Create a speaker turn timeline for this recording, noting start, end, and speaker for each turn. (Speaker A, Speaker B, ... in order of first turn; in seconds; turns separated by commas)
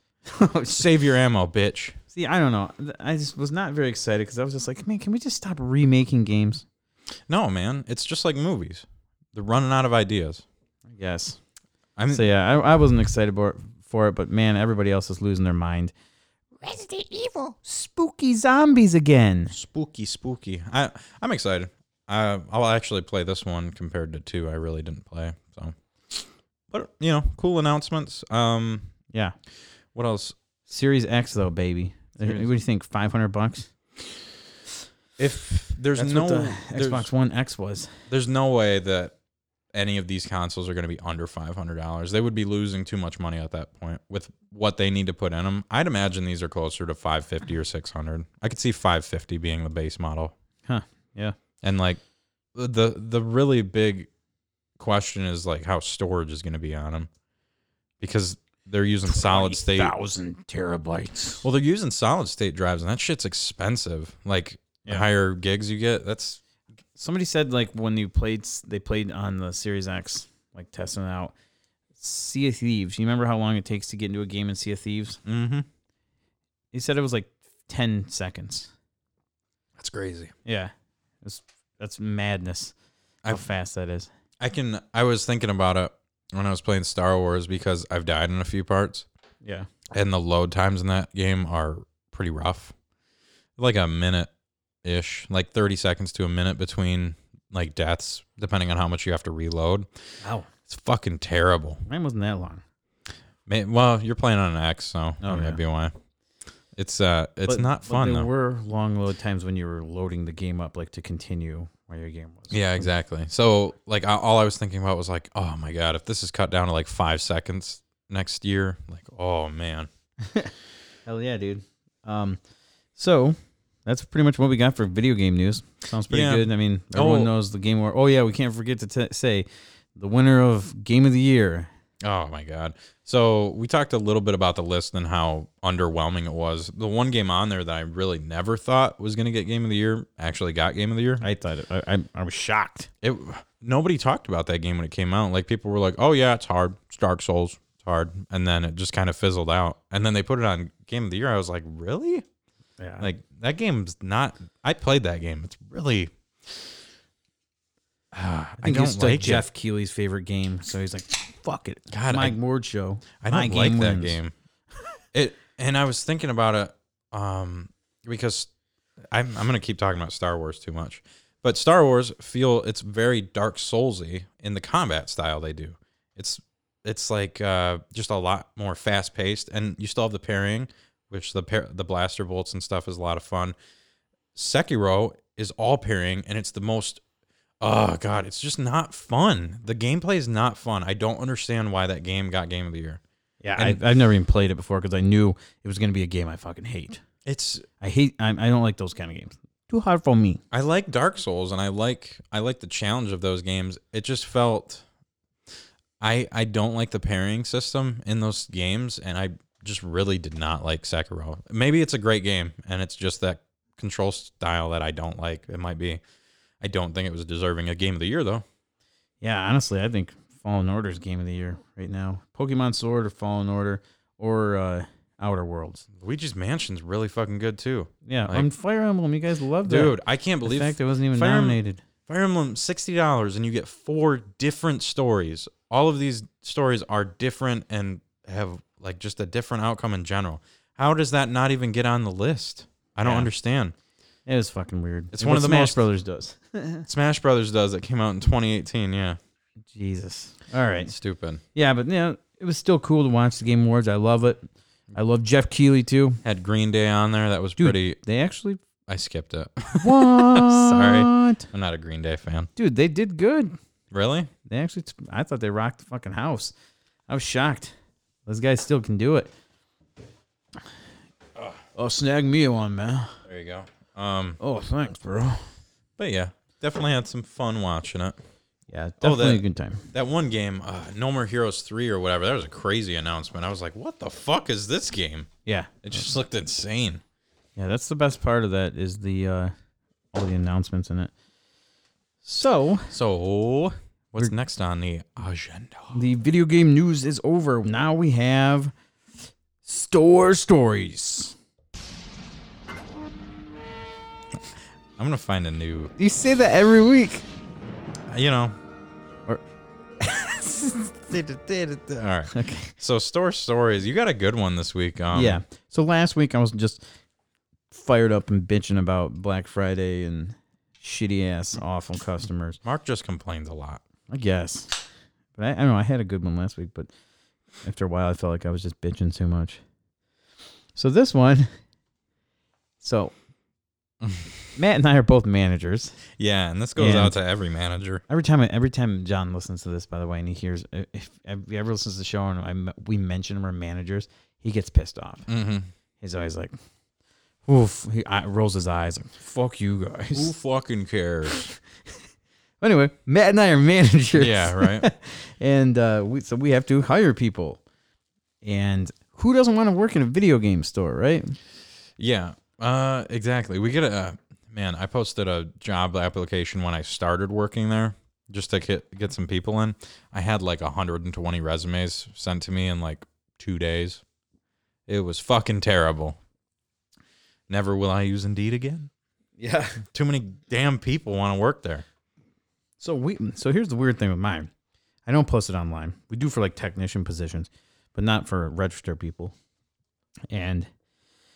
Speaker A: 0.3-0.9, Speaker B: 0.7-2.0, Speaker A: 2.1-6.6, Speaker B: 7.3-10.4, Speaker A: 10.9-11.4, Speaker B: 12.0-12.2, Speaker A: 12.1-15.9, Speaker A: 16.6-19.6, Speaker B: 19.5-28.9, Speaker B: 29.9-30.4, Speaker A: 30.7-33.7, Speaker B: 32.2-32.5, Speaker B: 35.2-37.1, Speaker A: 35.9-37.9, Speaker B: 38.1-39.1, Speaker B: 39.7-50.3, Speaker A: 50.6-51.4, Speaker B: 51.6-52.0, Speaker B: 52.5-54.1, Speaker B: 54.8-57.1, Speaker B: 58.0-59.9, Speaker A: 59.1-61.4, Speaker B: 61.4-66.4, Speaker A: 67.0-71.3, Speaker A: 72.0-75.2, Speaker B: 75.2-75.7, Speaker A: 76.7-78.7, Speaker B: 79.8-80.3, Speaker A: 80.4-82.7, Speaker A: 83.2-84.1, Speaker B: 84.4-89.1, Speaker A: 89.4-89.7, Speaker B: 89.9-92.7, Speaker B: 93.6-94.3, Speaker B: 94.8-99.9, Speaker A: 100.2-100.5, Speaker B: 100.7-101.8, Speaker A: 101.9-102.6, Speaker B: 103.5-105.9, Speaker A: 105.2-105.6, Speaker B: 106.7-108.3, Speaker A: 107.5-112.9, Speaker B: 112.5-119.9, Speaker A: 120.2-120.5, Speaker A: 121.0-122.4, Speaker A: 123.0-131.7, Speaker B: 126.1-127.3, Speaker B: 132.0-141.2, Speaker A: 141.2-142.9, Speaker B: 143.0-152.2, Speaker A: 152.8-153.1, Speaker B: 153.0-156.7, Speaker B: 158.1-159.4, Speaker A: 158.6-164.2, Speaker B: 161.9-162.4, Speaker B: 163.2-164.3, Speaker B: 165.1-168.5, Speaker B: 169.1-183.6, Speaker B: 184.3-187.0, Speaker B: 187.6-193.0, Speaker A: 193.4-197.0, Speaker B: 197.2-197.7, Speaker A: 197.8-200.4, Speaker B: 200.5-204.8, Speaker B: 206.0-216.0, Speaker B: 216.6-218.4, Speaker A: 219.2-225.8, Speaker B: 225.9-228.5, Speaker A: 228.0-231.8, Speaker B: 229.7-243.7, Speaker A: 243.0-243.3, Speaker A: 244.2-246.9, Speaker B: 245.1-245.8, Speaker B: 246.9-249.2, Speaker A: 249.7-250.9, Speaker B: 250.9-251.4, Speaker A: 251.5-256.2, Speaker B: 256.2-258.0, Speaker A: 257.6-258.6, Speaker B: 258.9-262.5, Speaker A: 259.8-261.4, Speaker A: 262.6-263.5, Speaker B: 263.9-264.3, Speaker A: 264.4-266.5, Speaker A: 267.1-267.7, Speaker A: 268.2-269.3, Speaker A: 271.7-273.2, Speaker B: 273.2-274.4, Speaker A: 274.4-275.4, Speaker B: 276.0-278.2, Speaker A: 278.7-279.9, Speaker B: 279.0-285.3, Speaker A: 285.4-286.1, Speaker B: 285.8-287.0, Speaker A: 287.6-289.5, Speaker A: 290.1-291.1, Speaker A: 292.2-292.9, Speaker B: 292.9-296.0, Speaker A: 295.9-298.7, Speaker A: 299.6-301.4, Speaker B: 305.0-305.9, Speaker A: 306.0-307.2, Speaker B: 308.1-308.6, Speaker A: 310.0-310.9, Speaker B: 311.1-315.4, Speaker A: 312.3-312.7, Speaker A: 315.1-316.8, Speaker A: 317.7-322.6, Speaker B: 322.6-323.8, Speaker A: 324.1-326.9, Speaker A: 327.6-329.6, Speaker A: 330.7-331.5, Speaker A: 332.8-333.1, Speaker A: 334.6-336.0, Speaker B: 336.2-338.0, Speaker A: 336.8-337.2, Speaker A: 338.1-345.2, Speaker B: 345.3-345.7, Speaker A: 346.0-346.5, Speaker A: 347.5-350.3, Speaker B: 350.1-351.5, Speaker A: 351.3-351.5, Speaker A: 352.6-357.6, Speaker B: 354.1-354.9, Speaker A: 358.4-361.4, Speaker B: 362.0-374.0, Speaker B: 374.9-376.2, Speaker B: 377.5-378.9, Speaker A: 379.4-379.8, Speaker B: 379.9-381.9, Speaker A: 382.8-384.5, Speaker A: 385.1-389.3, Speaker A: 390.3-390.7